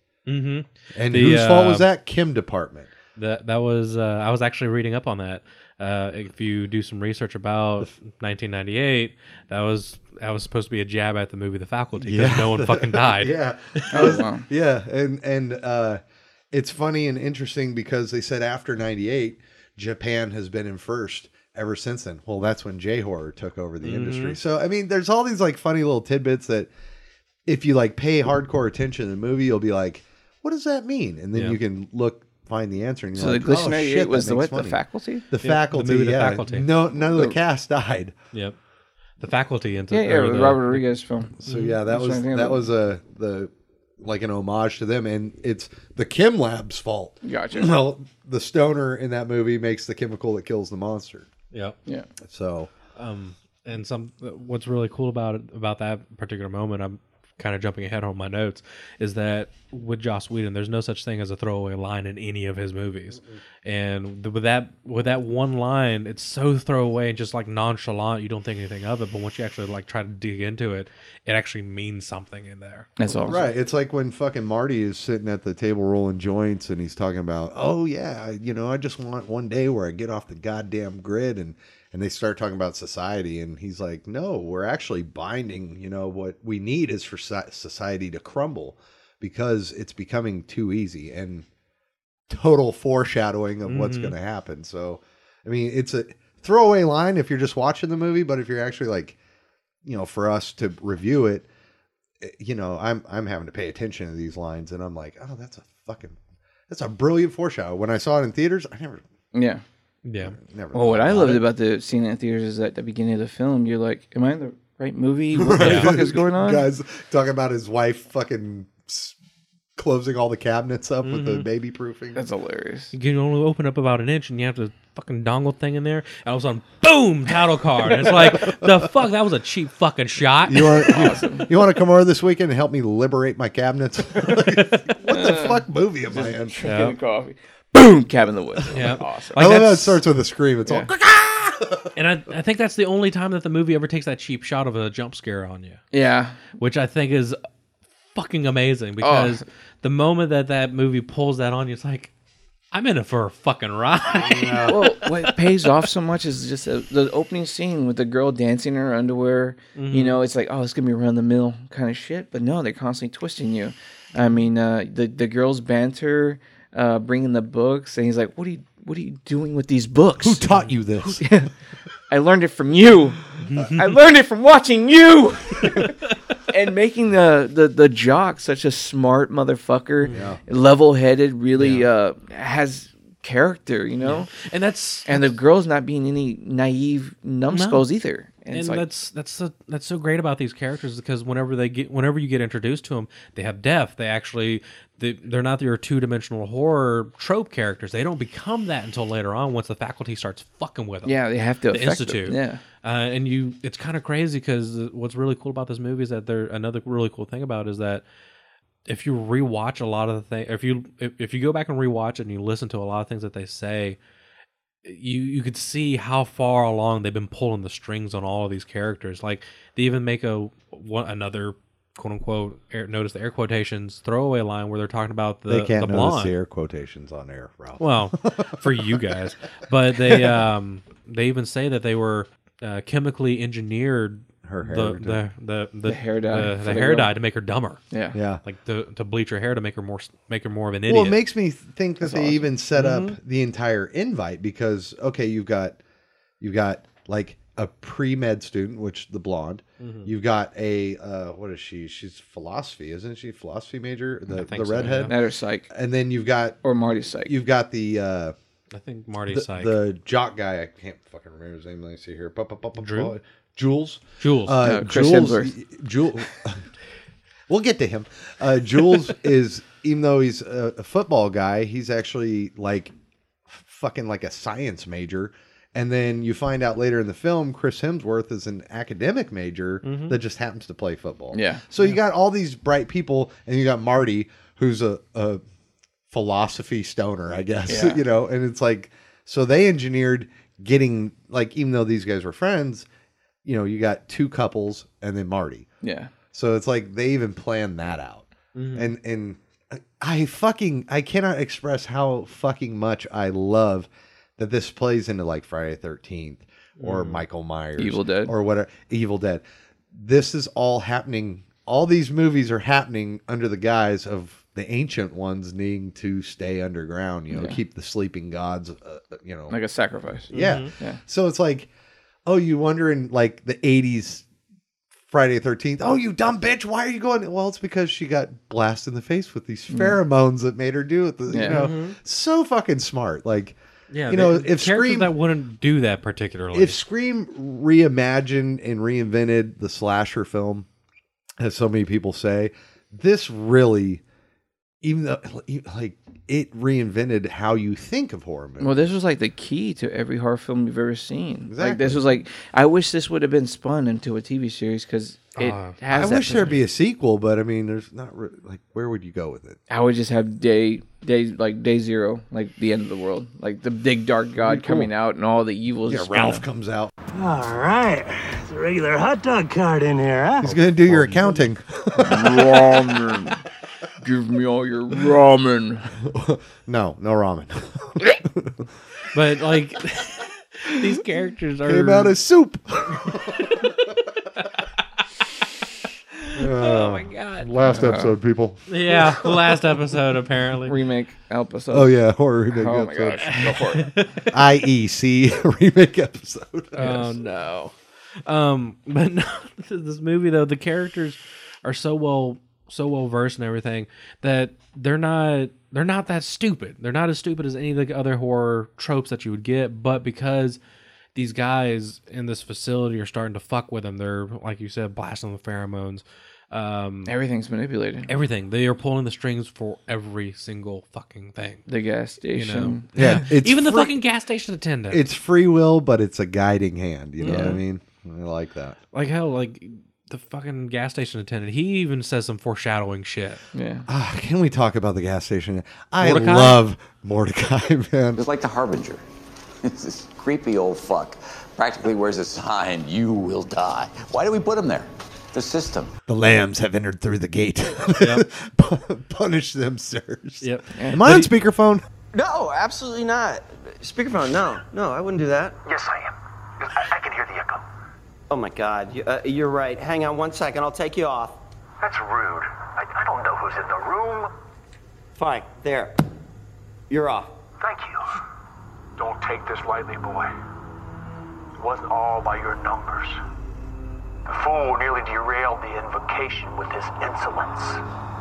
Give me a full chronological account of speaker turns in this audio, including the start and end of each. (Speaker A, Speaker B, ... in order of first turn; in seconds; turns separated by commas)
Speaker A: 0.3-1.9, Speaker B: 0.9-2.9, Speaker A: 3.2-14.1, Speaker B: 12.0-16.0, Speaker C: 13.9-14.5, Speaker B: 16.5-26.7, Speaker A: 23.8-24.4, Speaker B: 27.5-38.1, Speaker C: 33.1-35.2, Speaker A: 35.4-36.7, Speaker C: 37.1-37.4, Speaker A: 39.2-40.8, Speaker C: 39.9-41.4, Speaker B: 41.4-51.3, Speaker A: 41.4-41.8, Speaker C: 41.9-42.7, Speaker C: 47.2-47.7, Speaker A: 51.5-51.8, Speaker B: 52.2-52.7, Speaker A: 53.0-72.9, Speaker C: 73.0-73.4, Speaker B: 73.2-91.5, Speaker B: 92.3-99.2, Speaker A: 93.7-94.2, Speaker B: 99.8-101.5, Speaker B: 102.2-106.2, Speaker B: 106.7-109.0, Speaker C: 109.3-109.6, Speaker A: 110.0-110.4, Speaker B: 110.2-111.5, Speaker C: 110.7-116.7, Speaker B: 115.3-119.2, Speaker A: 115.6-115.9, Speaker B: 119.8-122.2, Speaker A: 121.0-121.5, Speaker C: 122.2-122.9, Speaker A: 122.9-130.9, Speaker B: 127.9-128.7, Speaker B: 130.5-136.6, Speaker C: 130.8-131.5, Speaker C: 135.1-139.4, Speaker A: 136.7-137.0, Speaker A: 138.7-140.0, Speaker B: 139.4-141.9, Speaker A: 141.9-145.8, Speaker C: 145.9-146.4, Speaker A: 146.6-147.4, Speaker A: 148.2-152.1, Speaker C: 149.0-149.4, Speaker A: 152.7-155.3, Speaker B: 154.1-154.9, Speaker C: 154.7-170.5, Speaker A: 159.8-160.2, Speaker B: 170.2-171.2, Speaker C: 171.0-171.5, Speaker C: 172.1-176.0, Speaker A: 173.4-174.0, Speaker C: 176.5-184.3, Speaker B: 180.1-180.4, Speaker A: 181.6-181.9, Speaker A: 184.0-185.3, Speaker C: 185.1-188.8, Speaker A: 187.5-187.9, Speaker A: 188.5-201.2, Speaker C: 201.1-202.6, Speaker A: 201.7-208.0, Speaker A: 208.9-214.0, Speaker A: 214.8-226.3, Speaker B: 225.5-229.2, Speaker A: 227.8-237.8, Speaker B: 230.0-230.4, Speaker B: 234.4-235.2, Speaker C: 235.9-237.1, Speaker C: 237.9-238.2, Speaker B: 238.1-238.4, Speaker A: 238.4-241.2, Speaker B: 240.9-245.8, Speaker C: 242.0-242.4, Speaker A: 242.8-243.2, Speaker B: 246.4-255.1, Speaker A: 249.8-250.1, Speaker A: 254.3-255.2, Speaker C: 255.1-255.7, Speaker B: 255.7-256.6, Speaker C: 256.6-257.3, Speaker B: 257.2-258.3, Speaker A: 258.7-259.8, Speaker B: 259.3-266.6, Speaker A: 262.8-263.1, Speaker A: 264.2-264.6, Speaker C: 264.6-265.5, Speaker B: 267.5-272.9, Speaker B: 273.5-285.4, Speaker A: 279.8-280.2, Speaker C: 281.3-281.6, Speaker B: 286.1-292.9, Speaker C: 287.7-288.0, Speaker B: 293.4-295.7, Speaker C: 295.8-296.1, Speaker B: 296.3-319.6, Speaker A: 298.6-298.9, Speaker A: 306.8-307.2, Speaker C: 307.8-308.3, Speaker C: 317.3-317.6, Speaker C: 319.5-321.0, Speaker B: 320.3-321.7, Speaker A: 320.3-320.7, Speaker B: 322.3-324.2, Speaker B: 325.1-333.6, Speaker C: 331.3-331.6, Speaker A: 331.5-332.0, Speaker A: 333.9-336.8, Speaker B: 334.1-335.1, Speaker B: 336.5-340.7, Speaker B: 341.4-344.0, Speaker B: 344.8-348.9, Speaker C: 348.6-356.5, Speaker B: 351.5-352.1, Speaker A: 355.4-355.8, Speaker B: 355.9-359.6, Speaker C: 359.7-366.4, Speaker B: 364.4-364.9, Speaker B: 365.9-366.9, Speaker D: 367.1-370.6, Speaker B: 370.4-372.8, Speaker C: 372.0-373.4, Speaker C: 374.0-375.9, Speaker B: 376.0-378.6, Speaker A: 379.1-382.2, Speaker B: 381.7-383.6, Speaker A: 386.3-387.6, Speaker B: 386.4-389.3, Speaker C: 387.6-388.1, Speaker A: 388.7-390.8, Speaker C: 390.7-391.9, Speaker B: 391.7-393.4, Speaker C: 392.5-393.9, Speaker A: 393.3-394.3, Speaker B: 394.3-397.0, Speaker A: 396.8-397.7, Speaker A: 398.3-410.6, Speaker A: 411.1-417.1, Speaker C: 417.1-418.1, Speaker A: 418.1-421.6, Speaker C: 421.7-422.9, Speaker A: 422.3-425.1, Speaker B: 423.0-423.9, Speaker B: 424.9-428.8, Speaker A: 427.2-427.6, Speaker C: 427.2-427.6, Speaker A: 428.9-433.4, Speaker C: 433.5-433.9, Speaker B: 433.9-438.2, Speaker A: 436.0-436.6, Speaker E: 438.1-439.0, Speaker E: 439.6-445.9, Speaker B: 446.1-451.8, Speaker A: 448.0-448.2, Speaker A: 450.4-451.3, Speaker C: 450.8-451.0, Speaker F: 452.1-455.7, Speaker G: 455.6-456.1, Speaker G: 456.6-457.6, Speaker F: 458.3-461.4, Speaker G: 461.8-464.3, Speaker F: 465.2-465.9, Speaker F: 466.9-467.3, Speaker G: 467.6-468.0, Speaker G: 469.0-470.3, Speaker G: 471.6-473.2, Speaker G: 474.3-477.8